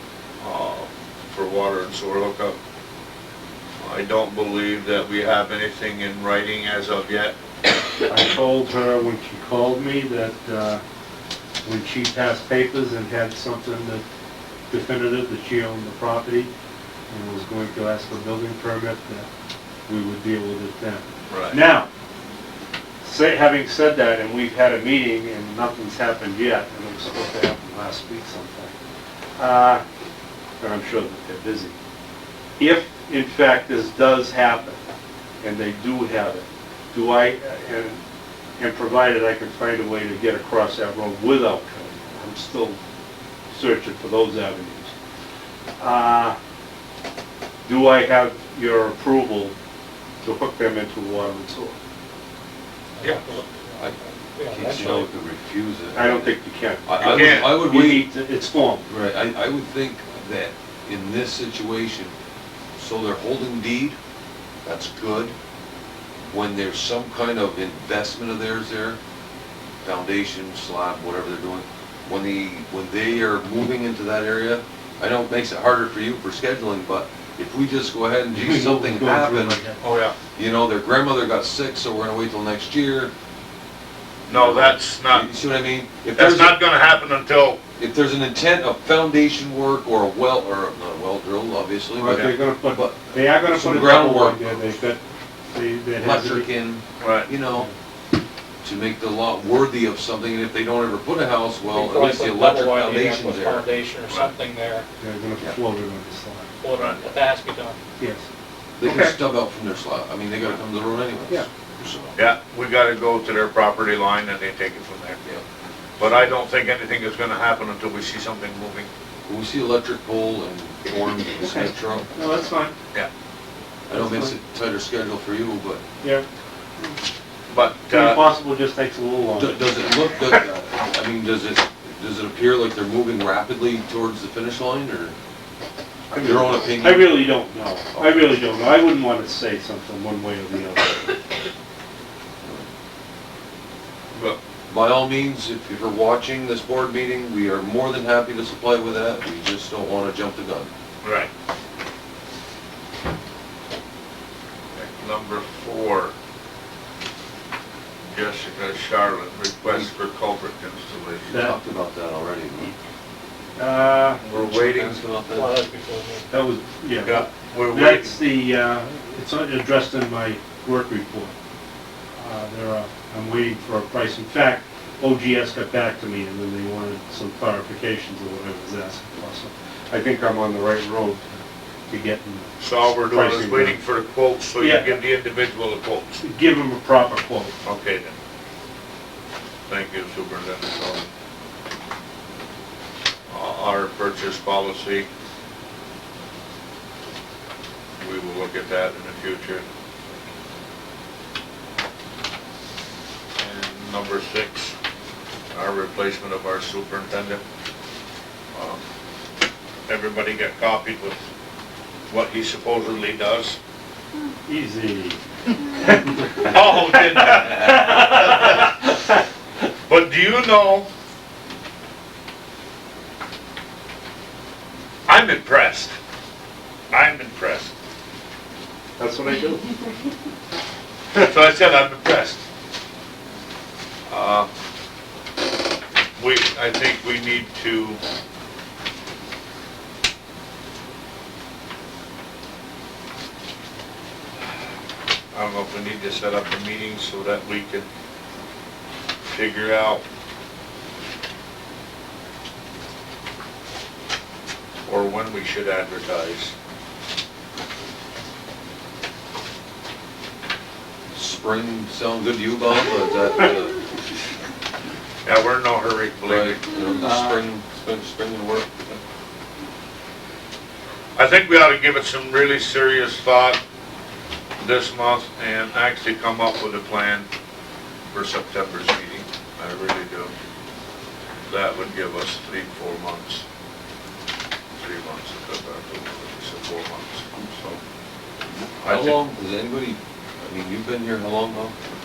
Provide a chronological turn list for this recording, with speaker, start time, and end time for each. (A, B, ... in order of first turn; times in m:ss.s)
0:00.4-0:02.6 A
0:03.8-0:07.3 A
0:08.1-0:10.8 B
0:11.6-0:14.0 B
0:14.7-0:16.5 B
0:17.1-0:19.3 B
0:19.9-0:21.9 B
0:21.3-0:21.6 A
0:23.0-0:28.8 B
0:29.4-0:29.8 B
0:30.6-0:31.8 B
0:32.6-0:34.8 B
0:35.4-0:38.0 B
0:38.6-0:42.8 B
0:43.5-0:44.9 B
0:45.8-0:46.4 B
0:47.6-0:49.6 B
0:50.2-0:51.8 B
0:53.0-0:55.1 C
0:54.5-0:56.3 D
0:55.9-0:58.8 B
0:56.9-0:58.1 D
0:57.0-0:57.6 A
0:58.8-1:02.1 D
1:02.8-1:04.0 D
1:04.6-1:05.3 D
1:06.2-1:09.0 D
1:09.8-1:19.6 D
1:18.3-1:19.8 B
1:19.8-1:20.1 A
1:20.4-1:23.1 D
1:24.3-1:25.3 A
1:24.3-1:26.6 D
1:26.2-1:27.6 A
1:27.8-1:34.4 D
1:31.9-1:35.0 B
1:32.1-1:32.4 A
1:35.5-1:36.5 B
1:36.0-1:37.7 D
1:37.0-1:37.3 A
1:38.6-1:43.7 D
1:41.7-1:44.9 C
1:45.0-1:46.5 B
1:46.6-1:47.8 C
1:46.8-1:47.0 A
1:48.0-1:48.2 B
1:48.8-1:52.1 D
1:48.8-1:49.2 B
1:52.2-1:55.2 A
1:56.0-1:58.9 A
1:56.0-1:56.3 D
1:59.3-2:02.1 D
2:01.4-2:02.8 B
2:03.9-2:04.4 B
2:03.9-2:05.8 D
2:06.0-2:06.2 B
2:07.5-2:08.2 A
2:07.9-2:09.7 B
2:09.4-2:15.2 D
2:16.1-2:21.2 B
2:16.2-2:17.3 D
2:17.9-2:18.3 D
2:22.4-2:22.7 D
2:24.7-2:30.7 D
2:31.0-2:31.3 A
2:34.8-2:36.1 A
2:38.1-2:41.4 A
2:39.6-2:39.9 D
2:41.3-2:42.8 D
2:41.3-2:41.6 B
2:43.6-2:44.2 B
2:44.2-2:45.0 A
2:44.3-2:45.5 D
2:45.3-2:46.3 C
2:46.3-2:51.3 B
2:47.0-2:48.2 A
2:52.1-3:01.3 B
3:01.9-3:02.5 B
3:02.6-3:06.2 A
3:03.1-3:03.8 B
3:04.6-3:05.0 B
3:06.2-3:07.5 B
3:07.6-3:08.1 A
3:09.7-3:11.1 A
3:13.3-3:15.1 A
3:18.0-3:19.6 A
3:23.4-3:24.8 A
3:25.5-3:27.4 A
3:28.5-3:28.8 A
3:29.9-3:31.2 A
3:32.1-3:33.6 A
3:34.4-3:38.2 B
3:36.4-3:38.9 A
3:39.9-3:40.9 A
3:45.1-3:46.0 A
3:46.9-3:47.7 A
3:49.0-3:50.1 B
3:51.1-3:52.4 A
3:54.1-3:54.5 A
3:56.2-3:58.0 A
4:05.3-4:07.9 A
4:09.3-4:10.0 A
4:14.8-4:16.5 A
4:21.1-4:23.8 D
4:25.2-4:26.6 A
4:26.2-4:29.0 D
4:31.2-4:33.6 A
4:34.6-4:37.3 A
4:38.1-4:40.3 A
4:41.5-4:43.4 A
4:44.8-4:47.8 A
4:48.8-4:51.7 D
4:48.8-4:49.2 A